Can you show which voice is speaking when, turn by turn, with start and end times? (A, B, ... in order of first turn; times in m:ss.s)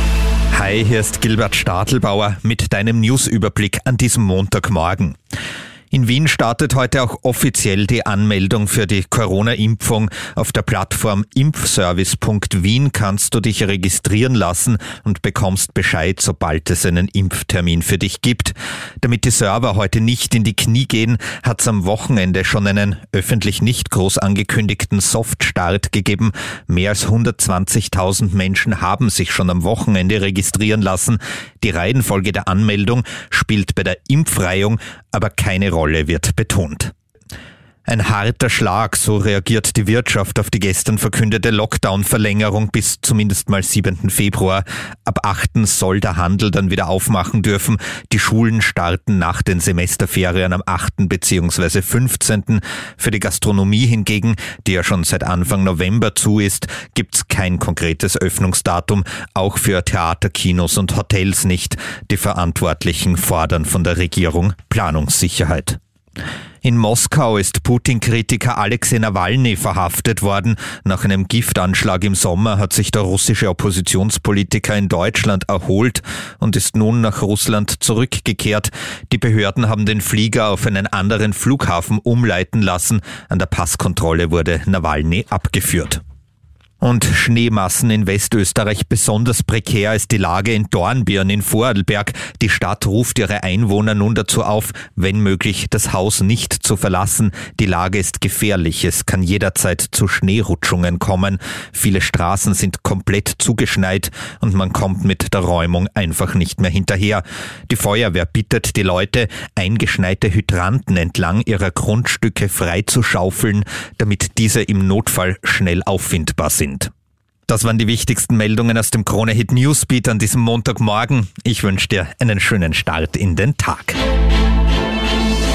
0:00.5-0:05.2 A
0:05.9-0:36.9 A
0:37.8-1:05.8 A
1:06.6-1:26.0 A
1:26.8-1:56.9 A
1:57.5-2:04.0 A